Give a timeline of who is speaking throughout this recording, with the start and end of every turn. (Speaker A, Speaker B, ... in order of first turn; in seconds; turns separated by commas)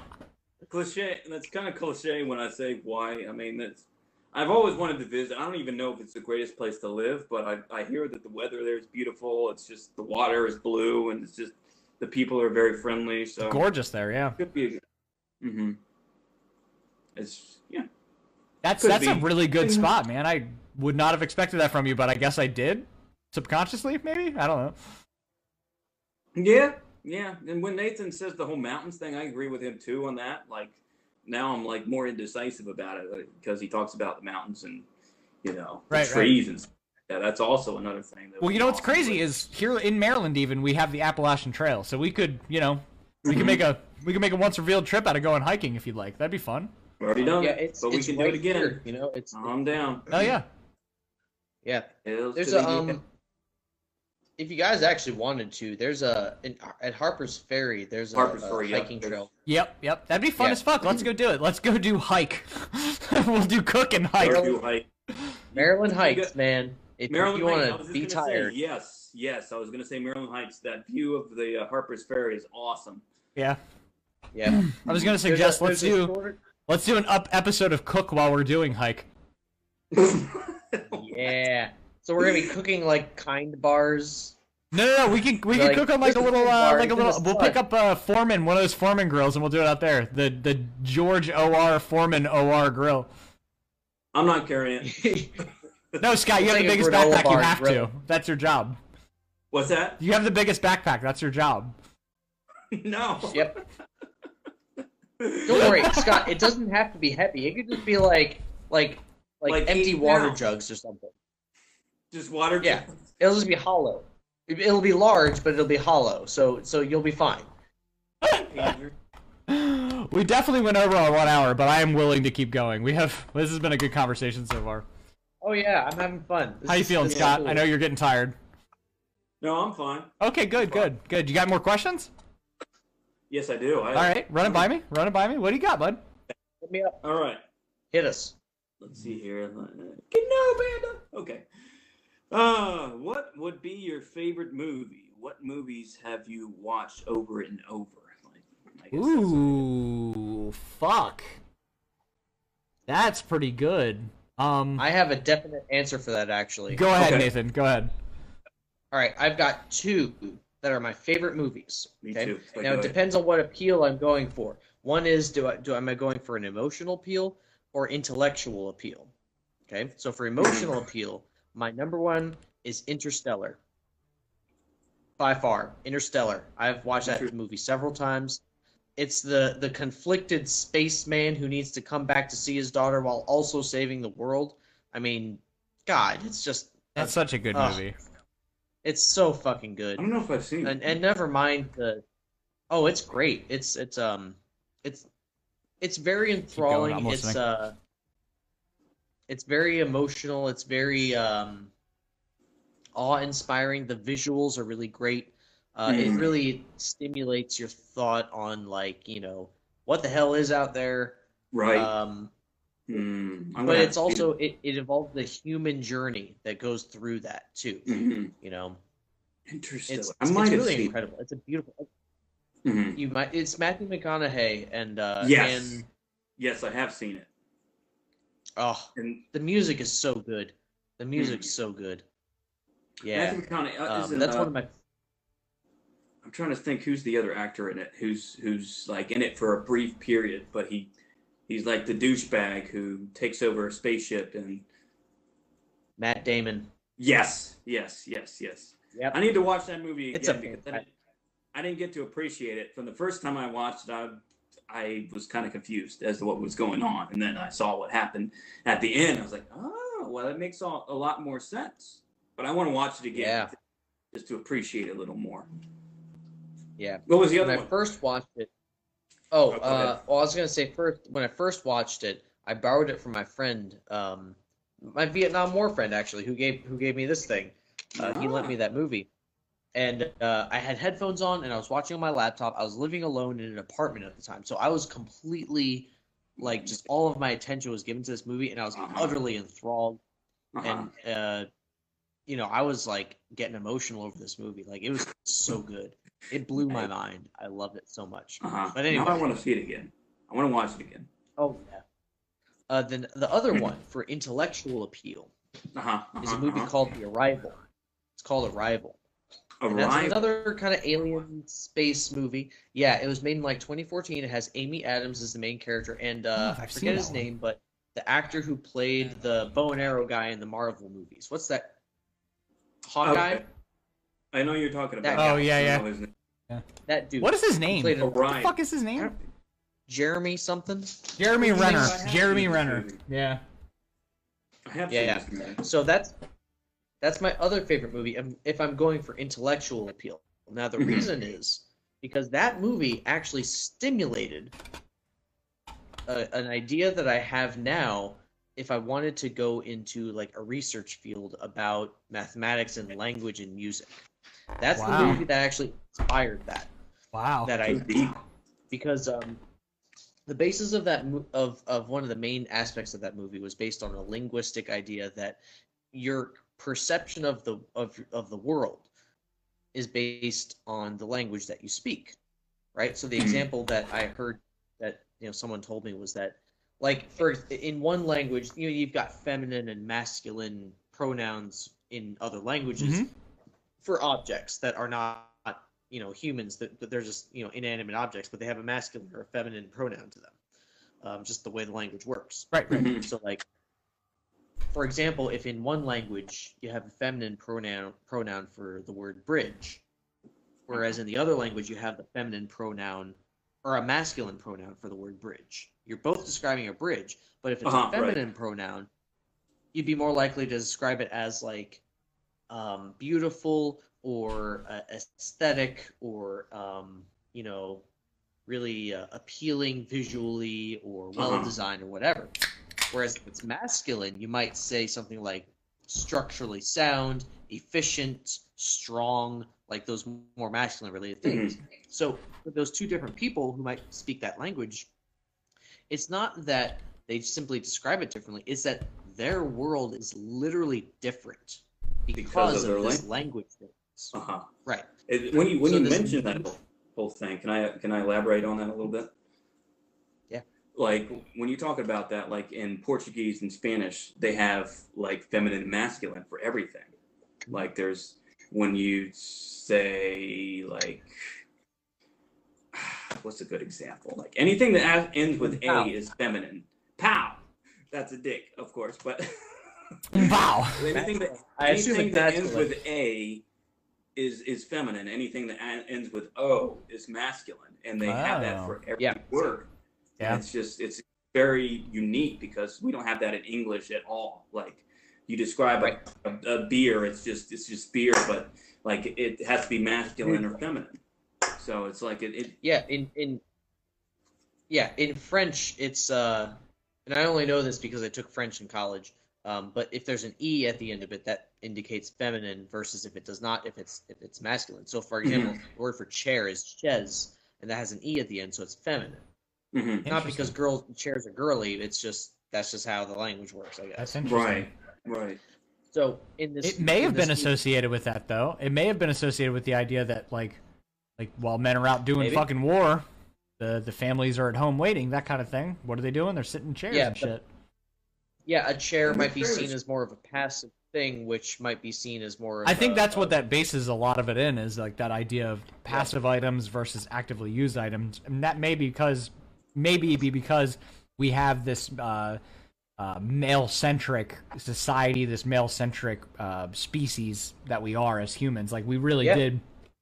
Speaker A: 0.7-13.6, Speaker B: 13.4-14.4, Speaker A: 14.4-14.8, Speaker A: 15.4-15.8, Speaker A: 17.1-17.9, Speaker B: 18.6-24.8, Speaker A: 18.8-19.9, Speaker A: 26.3-34.9, Speaker A: 35.4-39.4, Speaker B: 35.9-36.4, Speaker B: 38.4-46.7, Speaker A: 43.2-43.6, Speaker A: 47.0-50.2, Speaker C: 47.4-49.6, Speaker B: 50.1-50.5, Speaker C: 51.6-53.0, Speaker A: 52.0-53.0, Speaker C: 54.4-59.3, Speaker A: 58.1-59.2, Speaker B: 59.5-64.5, Speaker C: 64.2-64.6, Speaker A: 64.2-64.9, Speaker A: 65.5-66.3, Speaker C: 65.5-68.5, Speaker A: 67.1-73.0, Speaker C: 74.3-76.4, Speaker B: 74.5-76.1, Speaker B: 76.7-79.1, Speaker A: 79.9-81.3, Speaker C: 80.9-84.3, Speaker B: 84.7-93.1, Speaker C: 85.5-87.6, Speaker A: 94.1-95.0, Speaker C: 94.8-95.3, Speaker B: 96.0-98.8, Speaker C: 96.4-97.9, Speaker A: 99.5-100.0, Speaker B: 100.0-101.7, Speaker A: 102.7-103.6, Speaker C: 103.3-103.6, Speaker A: 105.2-106.1, Speaker C: 105.4-111.1, Speaker A: 109.5-110.4, Speaker A: 112.1-112.9, Speaker C: 112.6-117.5, Speaker A: 118.3-119.0, Speaker B: 119.5-124.8, Speaker C: 125.4-127.7, Speaker B: 126.7-128.3, Speaker A: 129.4-130.9, Speaker B: 130.2-132.1, Speaker A: 133.3-134.7, Speaker B: 133.9-136.0, Speaker C: 136.6-137.0, Speaker A: 137.0-137.4, Speaker C: 137.9-138.3, Speaker A: 138.8-141.4, Speaker A: 142.3-149.6, Speaker B: 148.9-151.3, Speaker B: 152.9-154.8, Speaker C: 154.8-156.9, Speaker B: 156.7-157.9, Speaker A: 156.9-157.3, Speaker C: 158.9-169.1, Speaker A: 162.0-163.0, Speaker C: 169.7-173.6, Speaker A: 170.4-170.7, Speaker C: 175.2-178.4, Speaker A: 177.0-177.3, Speaker C: 179.0-187.8, Speaker B: 186.9-188.0, Speaker C: 188.8-190.1, Speaker A: 189.9-191.0, Speaker C: 190.6-192.0, Speaker C: 192.7-195.1, Speaker C: 195.8-197.7, Speaker B: 196.5-197.4, Speaker C: 199.3-201.7, Speaker C: 202.9-211.2, Speaker A: 205.8-206.3, Speaker A: 211.5-211.9, Speaker C: 211.7-212.3, Speaker A: 212.9-214.3, Speaker C: 213.6-218.8, Speaker A: 217.8-218.3, Speaker A: 219.5-220.9, Speaker C: 219.9-221.9, Speaker A: 222.6-223.0, Speaker C: 222.9-225.8, Speaker A: 225.2-225.8, Speaker A: 226.4-227.3, Speaker C: 228.6-232.0, Speaker A: 228.9-229.2, Speaker A: 231.2-231.5, Speaker C: 233.0-234.7, Speaker A: 233.1-234.5, Speaker A: 236.2-240.9, Speaker A: 241.5-244.7, Speaker C: 246.0-246.7, Speaker A: 247.0-250.9, Speaker C: 250.1-250.8, Speaker A: 251.5-263.5, Speaker C: 263.1-263.5, Speaker A: 264.1-265.5, Speaker C: 266.8-268.5, Speaker A: 267.1-267.7, Speaker C: 269.3-279.1, Speaker A: 269.5-270.0, Speaker A: 278.0-278.5, Speaker C: 279.7-290.0, Speaker A: 288.7-289.2, Speaker A: 290.5-290.9, Speaker C: 290.6-291.5, Speaker C: 292.3-299.3, Speaker A: 298.4-301.1, Speaker C: 301.4-301.8, Speaker C: 302.7-305.3, Speaker A: 305.7-306.7, Speaker C: 306.2-307.6, Speaker C: 308.2-309.0, Speaker A: 309.6-310.3, Speaker C: 309.7-321.8, Speaker B: 316.4-317.2, Speaker C: 322.8-323.4, Speaker A: 323.0-323.4, Speaker A: 324.3-326.1, Speaker C: 325.0-325.5, Speaker B: 325.1-325.9, Speaker C: 326.9-328.2, Speaker B: 327.2-329.1, Speaker A: 328.0-328.5, Speaker C: 329.9-332.0, Speaker B: 331.2-333.4, Speaker A: 331.4-333.0, Speaker A: 334.6-335.6, Speaker C: 334.9-336.1, Speaker C: 337.0-344.5, Speaker A: 340.8-341.1, Speaker C: 346.1-354.0, Speaker C: 354.6-356.7, Speaker B: 354.7-355.2, Speaker A: 354.9-355.2, Speaker B: 357.1-357.5, Speaker C: 357.4-358.1, Speaker A: 357.6-358.2, Speaker C: 358.7-359.4, Speaker C: 360.3-365.4, Speaker C: 365.9-368.9, Speaker C: 369.7-372.1, Speaker C: 372.7-383.1, Speaker A: 373.2-373.4, Speaker B: 382.8-383.1, Speaker C: 383.8-390.3, Speaker C: 391.0-393.4, Speaker B: 392.5-392.8, Speaker A: 392.7-393.1, Speaker C: 394.7-399.8, Speaker C: 400.7-408.9, Speaker A: 407.6-408.2, Speaker C: 409.7-411.8, Speaker C: 412.5-417.8, Speaker C: 418.5-422.3, Speaker A: 421.1-421.5, Speaker C: 422.9-434.9, Speaker A: 431.2-431.6, Speaker C: 435.9-444.1, Speaker A: 442.2-443.0, Speaker A: 444.1-444.5, Speaker C: 444.6-444.9, Speaker A: 445.1-449.1, Speaker C: 445.6-446.5, Speaker A: 450.7-456.9, Speaker A: 457.5-461.1, Speaker A: 462.7-473.4, Speaker C: 465.4-465.9, Speaker B: 470.1-470.9, Speaker C: 470.9-472.7, Speaker A: 474.1-479.7, Speaker B: 478.0-478.8, Speaker A: 480.2-491.0, Speaker C: 490.2-490.5, Speaker A: 491.6-492.6, Speaker C: 492.6-493.4, Speaker C: 494.7-509.2, Speaker A: 505.2-505.5, Speaker A: 509.7-510.1, Speaker C: 510.1-514.2, Speaker B: 510.1-510.5, Speaker B: 514.0-514.7, Speaker A: 514.2-515.4, Speaker C: 515.9-517.6, Speaker B: 516.6-520.6, Speaker B: 521.2-523.0, Speaker C: 522.2-522.4, Speaker B: 523.6-527.4, Speaker C: 526.9-527.3, Speaker C: 528.5-533.4, Speaker A: 529.0-529.7, Speaker B: 532.6-542.4, Speaker B: 543.0-549.6